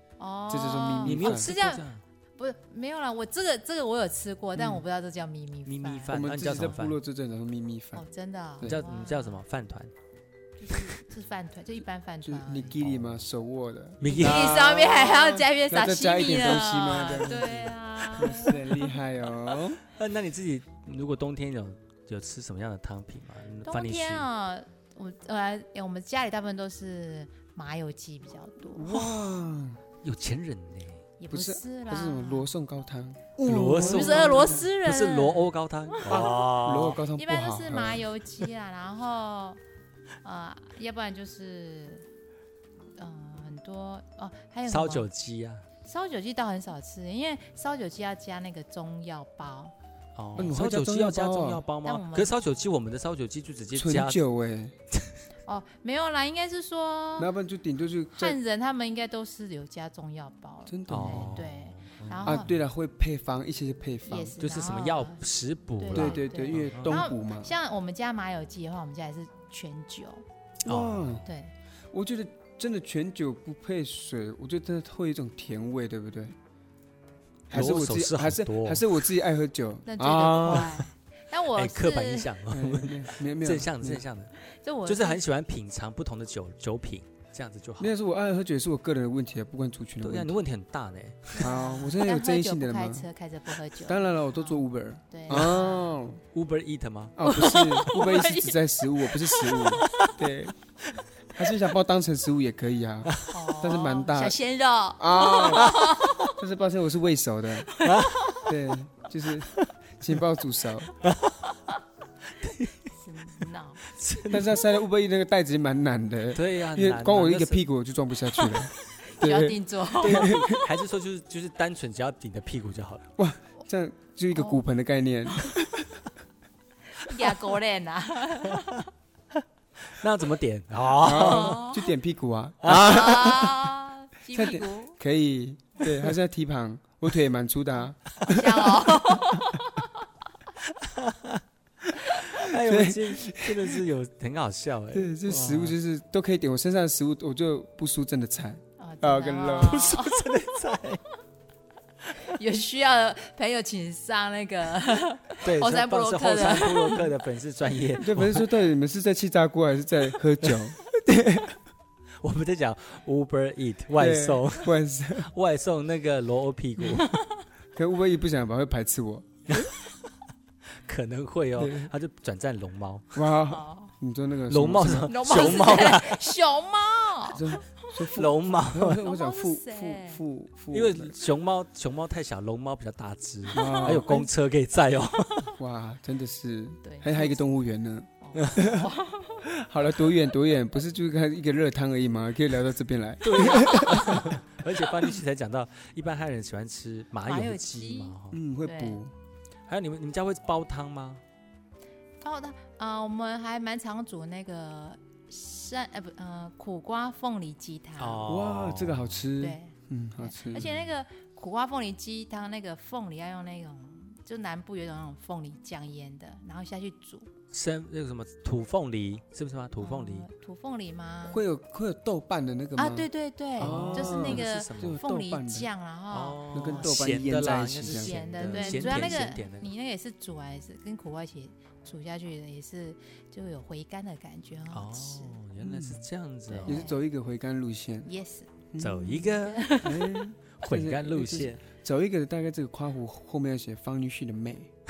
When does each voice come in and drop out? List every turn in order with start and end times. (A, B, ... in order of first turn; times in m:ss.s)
0:00.2-0:06.1 A
0:00.5-0:01.5 B
0:01.0-0:02.0 C
0:04.5-0:04.8 B
0:05.6-0:07.0 C
0:06.1-0:08.0 B
0:07.9-0:09.4 A
0:08.6-0:09.9 C
0:10.6-0:12.8 A
0:12.2-0:19.8 B
0:12.8-0:13.3 C
0:14.0-0:14.6 C
0:14.1-0:18.9 A
0:19.9-0:24.2 C
0:23.6-0:28.9 A
0:28.6-0:29.8 B
0:28.9-0:29.3 C
0:30.0-0:31.0 C
0:31.2-0:32.5 A
0:31.3-0:34.7 B
0:33.4-0:37.0 C
0:33.6-0:39.6 A
0:36.0-0:38.0 B
0:40.2-0:42.1 A
0:42.9-0:45.1 A
0:44.7-0:45.6 C
0:45.8-0:49.7 A
0:50.1-0:54.2 C
0:50.4-0:51.6 B
0:51.8-0:52.3 A
0:53.7-0:54.7 B
0:55.4-0:57.3 A
0:57.2-0:58.4 B
0:58.1-1:02.5 A
1:00.6-1:01.5 B
1:00.9-1:02.5 C
1:02.2-1:04.4 B
1:04.1-1:05.2 A
1:04.4-1:07.0 C
1:05.8-1:10.2 A
1:05.9-1:07.5 B
1:10.6-1:11.2 B
1:10.6-1:11.3 C
1:11.2-1:11.5 A
1:11.9-1:16.3 B
1:17.5-1:19.0 C
1:17.5-1:20.7 B
1:19.8-1:22.3 A
1:20.2-1:20.9 C
1:21.5-1:24.3 C
1:22.5-1:24.0 B
1:24.4-1:25.2 A
1:24.8-1:27.9 C
1:27.8-1:30.4 B
1:30.0-1:31.5 C
1:31.4-1:36.0 A
1:31.4-1:33.1 B
1:33.7-1:36.2 B
1:36.3-1:37.9 C
1:37.2-1:40.5 B
1:37.2-1:40.0 A
1:41.3-1:44.4 B
1:43.3-1:46.4 A
1:45.0-1:47.7 B
1:45.6-1:46.0 C
1:47.7-1:48.5 A
1:47.8-1:48.5 C
1:48.4-1:50.9 B
1:51.0-1:51.4 C
1:52.4-1:52.9 C
1:53.0-1:53.8 A
1:53.9-1:54.6 C
1:54.3-2:00.6 B
1:56.3-1:57.7 C
1:59.0-2:00.6 A
2:00.0-2:03.1 C
2:03.2-2:05.9 B
2:04.3-2:04.6 A
2:06.9-2:08.9 A
2:09.9-2:11.6 C
2:11.0-2:13.7 B
2:11.1-2:11.8 A
2:12.6-2:13.3 C
2:12.8-2:15.0 A
2:14.3-2:19.0 B
2:15.9-2:16.1 C
2:18.2-2:19.9 A
2:20.8-2:21.4 C
2:22.1-2:25.8 C
2:22.5-2:23.8 B
2:24.9-2:29.8 B
2:28.8-2:30.2 A
2:29.6-2:31.0 C
2:32.1-2:37.1 A
2:35.4-2:38.5 C
2:38.0-2:41.6 B
2:42.2-2:47.1 C
2:44.0-2:45.3 B
2:47.0-2:47.3 A
2:47.7-2:49.6 B
2:49.5-2:49.9 C
2:50.8-2:53.3 C
2:51.6-2:51.9 B
2:53.1-2:55.1 B
2:53.5-2:53.9 A
2:54.4-2:56.3 C
2:55.0-2:57.8 A
2:57.3-3:01.1 B
2:58.1-2:59.0 C
2:59.0-3:00.2 A
3:00.7-3:05.5 C
3:03.5-3:04.3 B
3:03.6-3:04.0 A
3:05.6-3:14.3 B
3:06.8-3:07.4 A
3:08.2-3:09.5 A
3:08.3-3:08.6 C
3:13.2-3:18.4 C
3:17.2-3:19.0 A
3:18.3-3:19.1 B
3:19.7-3:21.2 C
3:22.2-3:28.3 A
3:28.0-3:29.3 C
3:28.3-3:30.7 B
3:29.4-3:37.3 A
3:30.5-3:30.9 C
3:37.5-3:40.3 C
3:39.8-3:41.4 A
3:41.3-3:45.7 B
3:42.8-3:47.0 A
3:43.6-3:45.0 C
3:46.1-3:49.7 C
3:46.5-3:49.3 B
3:47.9-3:55.4 A
3:54.7-3:56.8 C
3:55.6-3:56.1 B
3:56.5-3:57.0 A
3:56.6-3:58.1 B
3:58.0-3:58.5 A
3:58.7-3:59.3 B
3:58.8-3:59.8 C
3:59.1-4:00.0 A
3:59.8-4:04.7 B
4:00.6-4:01.6 C